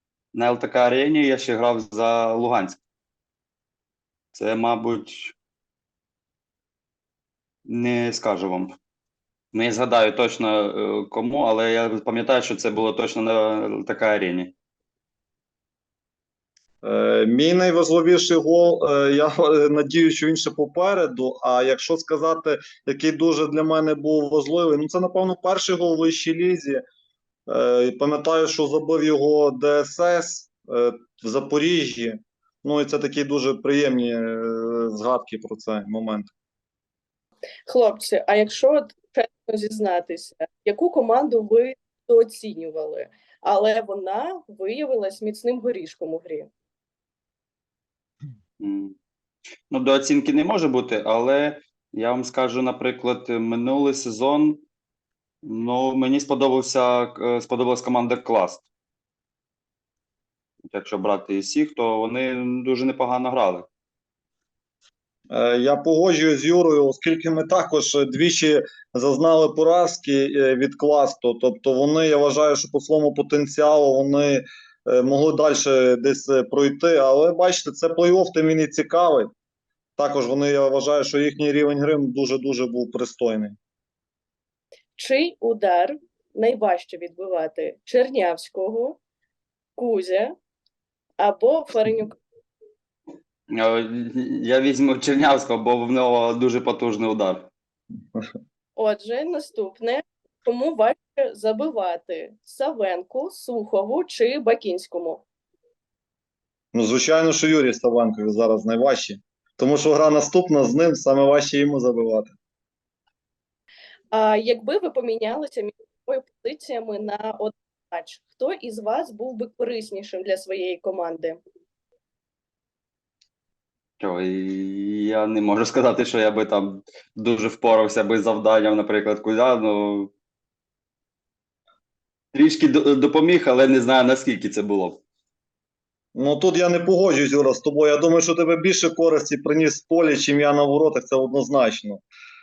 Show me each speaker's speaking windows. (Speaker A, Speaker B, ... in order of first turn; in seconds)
Speaker A: 0.3-2.8, 4.3-5.3, 7.7-8.8, 9.5-14.5, 48.6-48.9, 49.7-54.6, 55.4-58.7, 60.7-63.7, 93.6-97.5, 124.0-130.1, 132.3-135.0
Speaker B: 16.8-26.8, 27.5-36.3, 65.3-79.3, 80.0-83.6, 106.7-112.3, 136.1-142.0
Speaker C: 37.7-46.5, 85.0-89.0, 89.8-90.3, 91.2-92.2, 98.8-105.2, 114.1-121.4